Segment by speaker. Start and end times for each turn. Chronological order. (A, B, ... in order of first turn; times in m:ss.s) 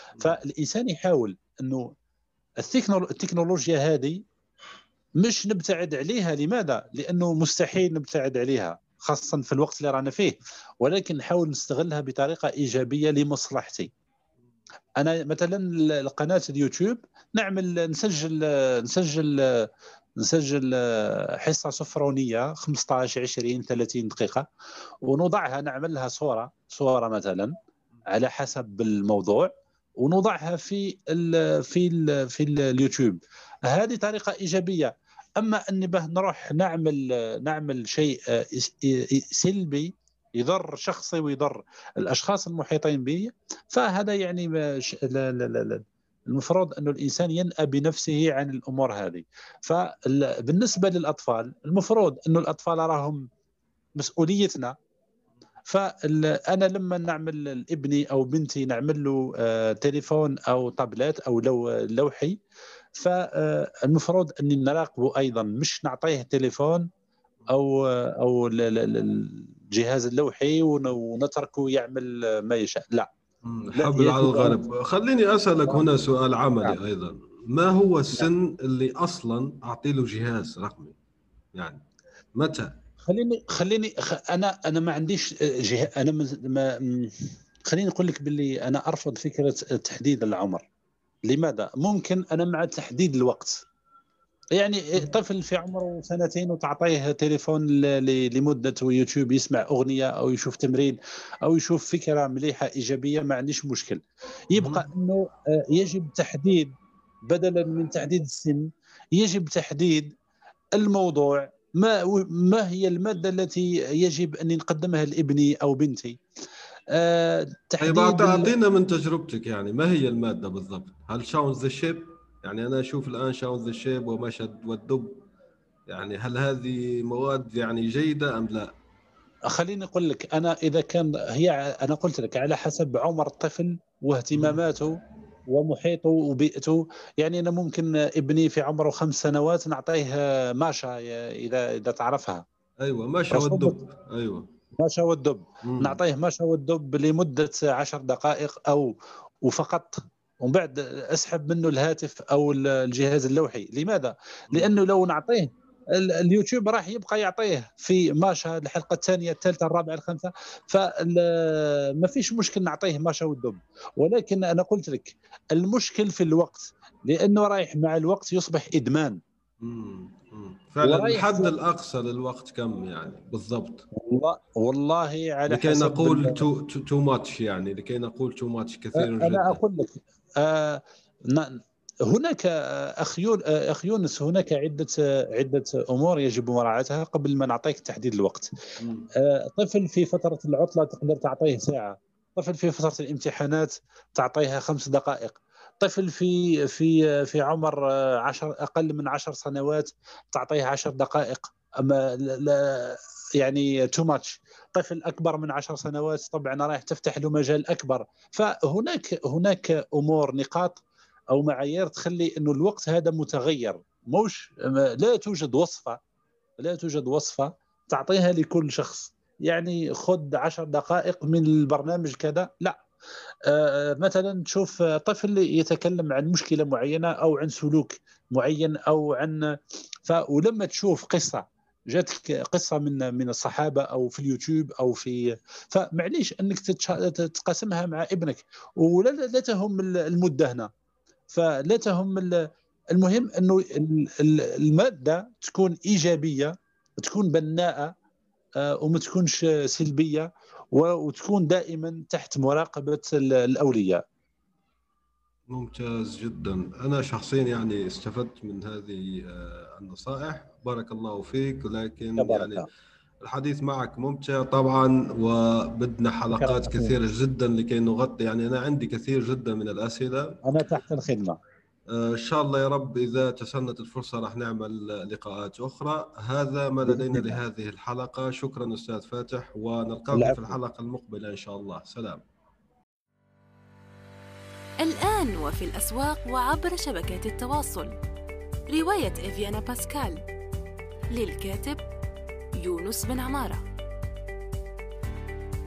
0:00.2-0:01.9 A
0:02.6-0:04.2 A
0:05.2-0:13.9 A
0:15.0-0:24.5 A
0:25.0-0:27.5 A
0:28.1-0:53.2 A
0:54.0-0:54.8 A
0:55.7-1:02.4 A
1:03.0-1:06.9 A
1:07.5-1:13.1 A
1:13.4-1:21.0 B
1:13.8-1:14.6 A
1:21.6-1:21.8 B
1:22.4-1:22.7 B
1:23.0-1:30.7 A
1:31.3-1:33.6 A
1:34.6-1:46.8 A
1:44.5-1:44.9 B
1:47.3-1:50.2 A
1:50.8-1:56.2 A
1:56.9-1:58.5 A
1:57.8-2:05.2 B
2:05.9-2:08.7 B
2:09.5-2:22.4 A
2:14.3-2:14.6 B
2:22.8-2:24.5 B
2:23.3-2:23.8 A
2:24.8-2:49.2 A
2:25.6-2:26.0 B
2:49.6-2:53.9 B
2:50.8-2:51.5 A
2:53.9-2:56.5 A
2:55.5-2:59.6 B
2:59.0-3:08.5 A
3:08.8-3:09.1 B
3:09.2-3:30.8 A
3:31.3-3:36.0 A
3:36.6-3:42.8 A
3:43.5-3:49.6 A
3:50.1-4:00.7 A
4:01.3-4:07.9 A
4:08.6-4:14.0 A
4:15.5-4:22.7 B
4:22.2-4:22.7 A
4:23.2-4:30.4 B
4:26.3-4:26.9 A
4:30.4-4:31.4 A
4:31.9-4:42.2 B
4:36.9-4:37.4 A
4:40.1-4:40.6 A
4:44.8-4:47.9 C
4:48.7-4:50.2 C
4:51.1-4:51.8 C
4:52.6-4:53.6 C